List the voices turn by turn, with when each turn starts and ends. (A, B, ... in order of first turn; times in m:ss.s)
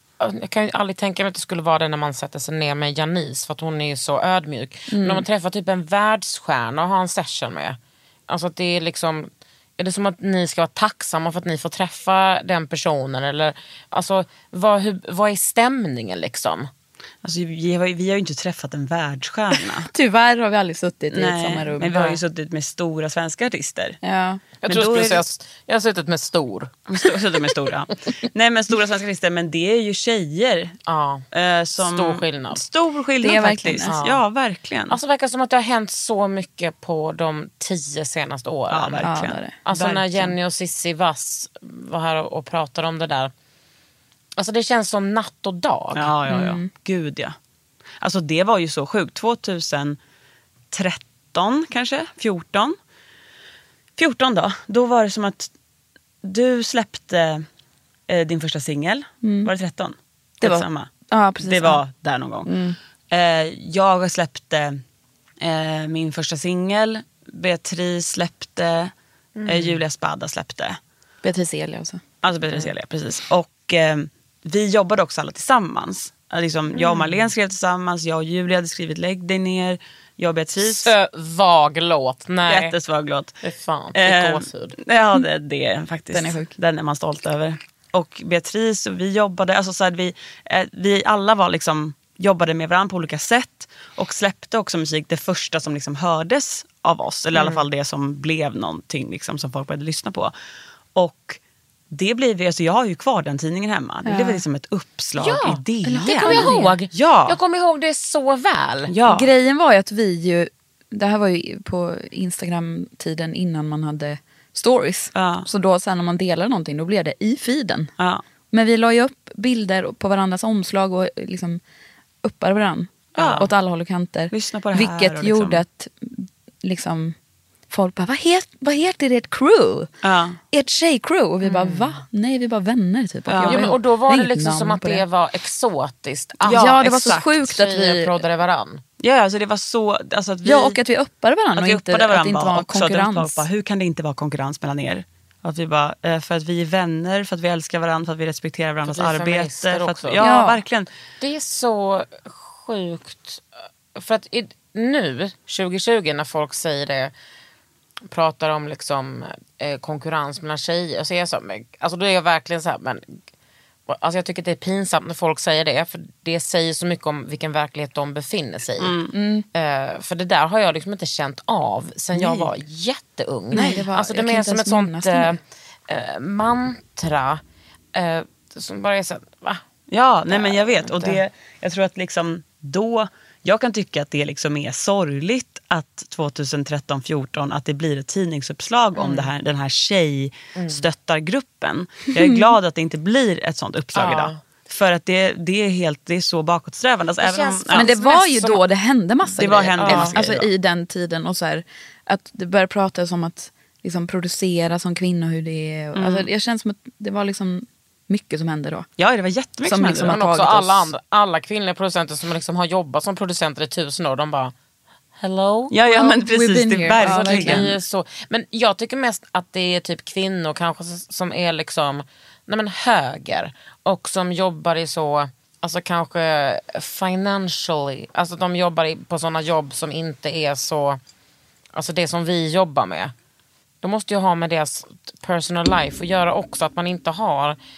0:00.2-0:16.7 A
0:04.9-0:05.2 B
0:17.2-0:19.9 C
0:19.9-0:22.2 B
0:21.1-0:24.0 C
0:24.0-0:24.4 B
0:24.6-0:26.8 A
0:24.6-0:25.2 C
0:26.9-0:30.8 C
0:30.8-0:31.2 A
0:31.3-0:35.0 C
0:31.8-0:32.6 A
0:33.2-0:33.9 B
0:33.8-0:34.2 A
0:34.9-0:39.1 A
0:38.7-0:40.3 C
0:39.0-0:39.5 B
0:39.6-0:43.3 A
0:44.4-0:46.1 A
0:46.0-0:47.3 C
0:46.3-0:46.7 B
0:48.0-0:50.0 C
0:50.7-0:52.8 C
0:54.0-0:55.5 C
0:56.2-0:57.4 C
0:58.1-1:00.9 C
0:59.2-0:59.5 B
1:00.4-1:01.8 B
1:01.4-1:02.5 C
1:02.4-1:02.8 B
1:03.1-1:04.8 C
1:05.4-1:08.9 C
1:09.4-1:09.8 A
1:09.4-1:10.8 C
1:11.2-1:12.0 B
1:12.2-1:20.9 C
1:16.8-1:17.2 A
1:20.6-1:22.7 A
1:22.5-1:23.4 C
1:23.4-1:24.8 A
1:23.9-1:40.3 C
1:26.1-1:26.5 B
1:37.3-1:37.6 A
1:40.9-1:41.4 C
1:41.9-1:47.4 C
1:44.0-1:44.4 B
1:45.2-1:48.9 A
1:45.8-1:46.7 B
1:48.9-1:49.3 C
1:49.0-1:57.9 B
1:55.1-1:55.5 C
1:58.5-2:01.6 B
2:02.2-2:07.2 B
2:03.2-2:03.5 C
2:04.3-2:05.6 C
2:07.7-2:09.9 B
2:10.0-2:10.4 C
2:10.5-2:15.0 B
2:11.4-2:12.0 A
2:13.3-2:13.6 C
2:13.4-2:18.8 A
2:16.4-2:17.4 C
2:16.5-2:18.2 B
2:19.0-2:20.8 C
2:20.4-2:23.4 B
2:21.5-2:30.9 C
2:28.8-2:30.2 A
2:30.2-2:30.6 B
2:31.2-2:37.1 A
2:38.1-2:43.2 A
2:43.9-2:49.0 A
2:48.8-2:49.1 C
2:49.1-2:49.4 B
2:49.5-2:57.4 A
2:52.1-2:52.5 C
2:53.5-2:55.4 B
2:53.6-2:53.8 C
2:57.9-2:59.6 A
2:59.9-3:17.9 C
3:00.3-3:01.2 A
3:08.9-3:09.3 A
3:10.6-3:10.8 A
3:13.9-3:14.4 A
3:17.2-3:18.6 A
3:17.7-3:28.9 B
3:19.4-3:20.1 A
3:19.4-3:20.5 C
3:26.0-3:26.3 C
3:29.0-3:30.2 C
3:29.6-3:30.9 B
3:30.1-3:34.5 A
3:35.2-3:35.7 A
3:35.7-3:37.7 C
3:35.8-3:37.7 B
3:37.0-3:51.0 A
3:51.7-3:53.1 A
3:53.8-3:57.6 A